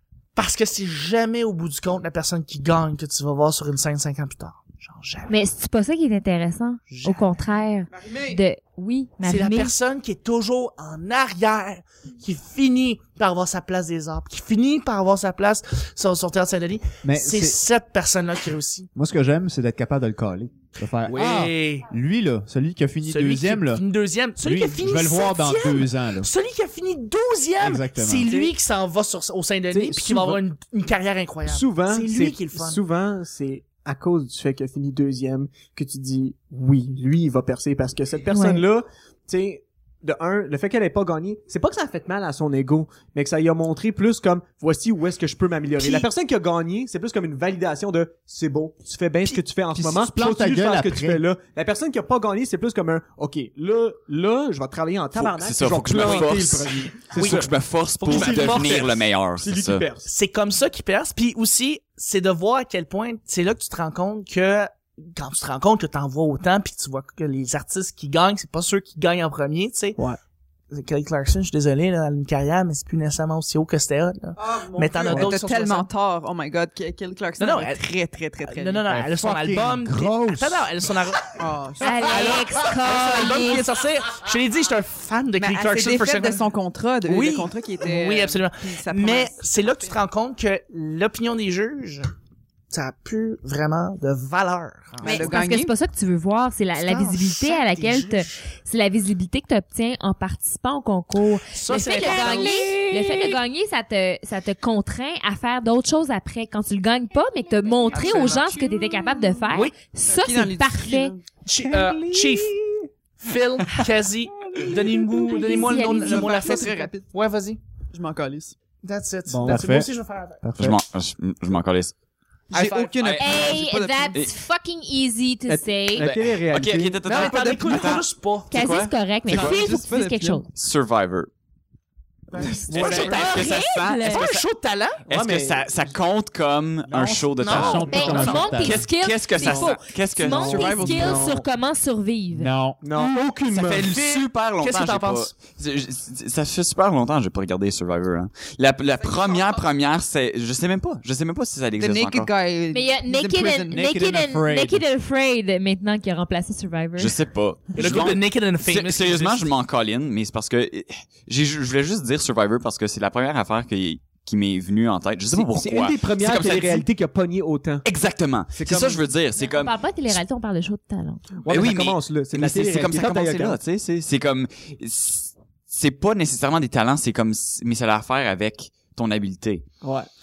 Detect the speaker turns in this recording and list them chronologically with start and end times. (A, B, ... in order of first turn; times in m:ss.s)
0:00.4-0:05.3 A
0:05.3-0:09.7 B
0:06.9-0:07.3 A
0:09.2-0:18.9 A
0:17.0-0:17.6 C
0:18.9-0:23.8 C
0:21.1-0:21.9 A
0:23.0-0:32.8 A
0:24.4-0:26.3 C
0:27.6-0:28.3 C
0:29.7-0:30.4 D
0:31.5-0:57.5 D
0:38.3-0:38.6 B
0:49.7-0:51.2 C
0:55.1-0:59.8 E
0:57.1-0:57.5 A
0:58.0-0:59.0 A
0:58.0-1:00.1 D
1:00.0-1:10.0 A
1:10.7-1:15.9 A
1:14.5-1:18.9 F
1:15.0-1:15.3 D
1:17.4-1:17.8 A
1:18.4-1:26.4 A
1:18.9-1:20.7 C
1:21.4-1:22.4 F
1:21.8-1:23.6 B
1:25.4-1:30.0 F
1:27.0-1:32.1 A
1:32.7-1:35.3 A
1:35.0-1:35.7 F
1:35.0-1:51.1 B
1:36.8-1:38.3 A
1:41.5-1:43.3 A
1:42.0-1:42.7 F
1:47.9-1:48.6 A
1:50.0-1:52.0 F
1:51.4-1:52.6 A
1:51.9-1:52.7 D
1:53.2-1:57.6 A
1:54.4-1:57.1 F
1:55.1-1:56.6 B
1:57.9-1:58.5 F
1:58.8-2:00.4 A
1:59.3-1:59.9 C
2:00.4-2:00.8 C
2:00.6-2:01.9 E
2:02.5-2:04.2 F
2:02.5-2:03.0 A
2:02.9-2:03.6 E
2:03.2-2:06.1 B
2:05.5-2:07.9 D
2:06.0-2:09.6 E
2:07.0-2:08.5 A
2:07.2-2:08.0 F
2:08.5-2:10.4 B
2:09.3-2:10.5 F
2:10.5-2:11.3 E
2:12.3-2:15.0 A
2:12.4-2:13.3 D
2:12.6-2:14.4 E
2:12.8-2:14.3 B
2:15.1-2:21.0 E
2:15.1-2:16.0 D
2:16.9-2:18.2 D
2:17.4-2:18.4 A
2:17.4-2:18.9 C
2:17.5-2:22.5 B
2:20.3-2:21.4 F
2:20.8-2:21.4 D
2:22.3-2:22.8 C
2:22.8-2:23.9 D
2:23.5-2:25.4 A
2:23.7-2:32.3 E
2:29.2-2:29.5 F
2:31.8-2:33.9 F
2:32.7-2:37.2 B
2:33.7-2:34.8 C
2:37.0-2:46.9 E
2:37.7-2:39.5 A
2:45.3-2:47.8 D
2:47.8-2:50.1 E
2:48.5-2:49.1 D
2:49.4-2:51.2 B
2:51.4-2:53.6 D
2:51.5-2:59.6 E
2:59.8-3:00.1 D